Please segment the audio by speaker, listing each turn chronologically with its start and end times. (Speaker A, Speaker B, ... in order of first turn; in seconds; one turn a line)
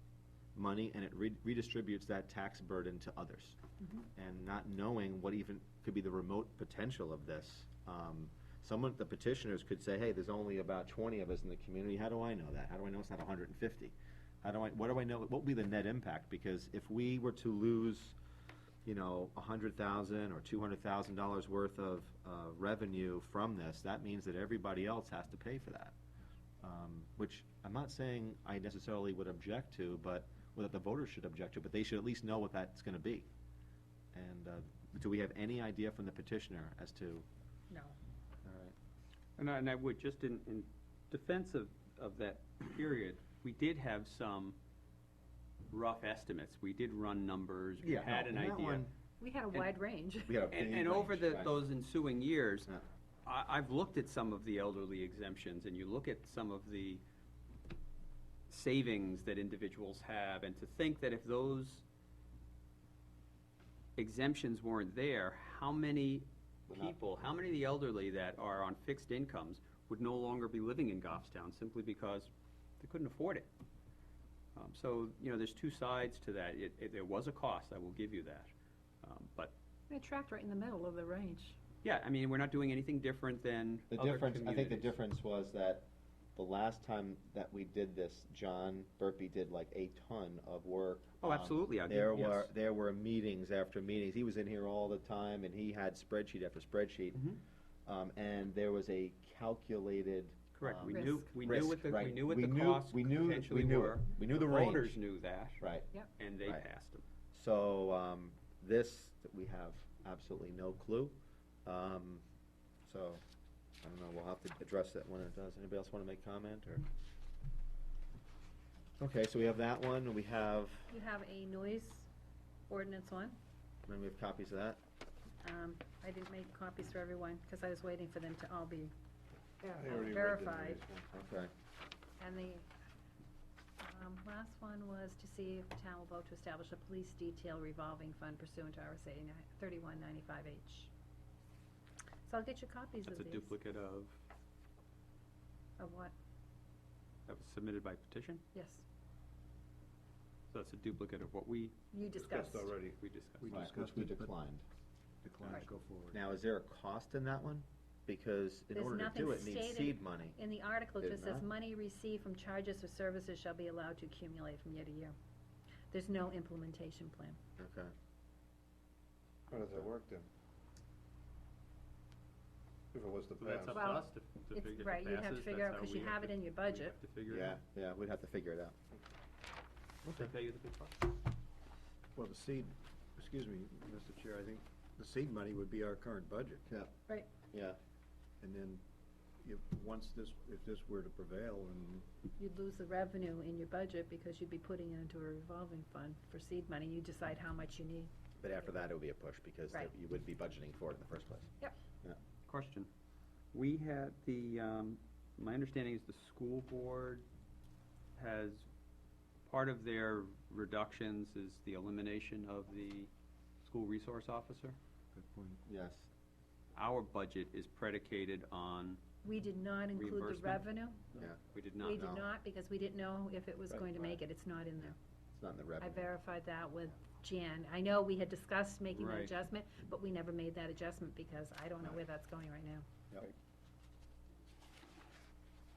Speaker A: 0.6-3.6
Speaker A: 4.2-18.2
Speaker A: 18.9-25.9
Speaker A: 26.6-33.3
Speaker A: 34.1-37.3
Speaker B: 37.7-38.0
Speaker A: 38.5-38.8
Speaker C: 39.4-44.6
Speaker C: 45.7-48.9
Speaker A: 47.8-48.9
Speaker B: 49.2-50.4
Speaker A: 50.3-51.6
Speaker C: 50.5-52.7
Speaker C: 53.2-57.0
Speaker C: 58.5-61.8
Speaker C: 64.0-73.5
Speaker A: 66.7-67.0
Speaker C: 74.5-78.5
Speaker C: 79.0-79.5
Speaker B: 79.9-81.6
Speaker C: 81.8-85.0
Speaker A: 83.9-97.3
Speaker C: 91.2-92.5
Speaker C: 97.1-97.4
Speaker A: 97.9-105.0
Speaker C: 100.5-105.6
Speaker B: 100.9-101.3
Speaker A: 105.6-105.9
Speaker C: 106.2-107.0
Speaker A: 107.3-112.2
Speaker A: 112.8-113.2
Speaker A: 113.8-116.8
Speaker A: 119.0-121.0
Speaker B: 120.9-122.1
Speaker B: 122.7-123.4
Speaker A: 123.9-124.8
Speaker B: 125.4-128.9
Speaker B: 129.6-130.8
Speaker D: 129.8-131.1
Speaker A: 131.1-131.5
Speaker B: 132.2-132.7
Speaker B: 133.8-140.9
Speaker B: 142.3-143.6
Speaker C: 143.1-144.2
Speaker B: 145.8-146.1
Speaker C: 147.3-148.4
Speaker B: 148.5-148.8
Speaker C: 150.5-151.8
Speaker B: 151.9-152.7
Speaker D: 152.2-154.3
Speaker C: 153.0-153.6
Speaker A: 153.5-154.6
Speaker D: 155.2-156.2
Speaker A: 156.1-160.4
Speaker B: 158.7-165.2
Speaker A: 161.0-161.5
Speaker B: 165.9-167.4
Speaker A: 167.6-167.9
Speaker D: 169.5-170.3
Speaker D: 172.9-174.1
Speaker C: 173.4-177.6
Speaker B: 173.7-177.0
Speaker A: 177.3-178.8
Speaker C: 180.1-181.1
Speaker D: 182.2-186.6
Speaker A: 187.5-187.8
Speaker D: 188.4-188.8
Speaker D: 189.4-192.1
Speaker B: 192.4-198.1
Speaker A: 198.4-201.5
Speaker C: 202.5-202.9
Speaker C: 203.5-207.2
Speaker C: 208.2-208.7
Speaker C: 209.5-213.1
Speaker C: 213.6-214.8
Speaker A: 215.2-216.1
Speaker C: 216.8-219.0
Speaker B: 219.2-221.1
Speaker C: 219.9-220.7
Speaker A: 221.2-221.4
Speaker C: 221.5-222.0
Speaker B: 221.8-224.9
Speaker A: 221.9-222.3
Speaker A: 224.8-226.1
Speaker B: 225.8-232.9
Speaker C: 228.9-229.3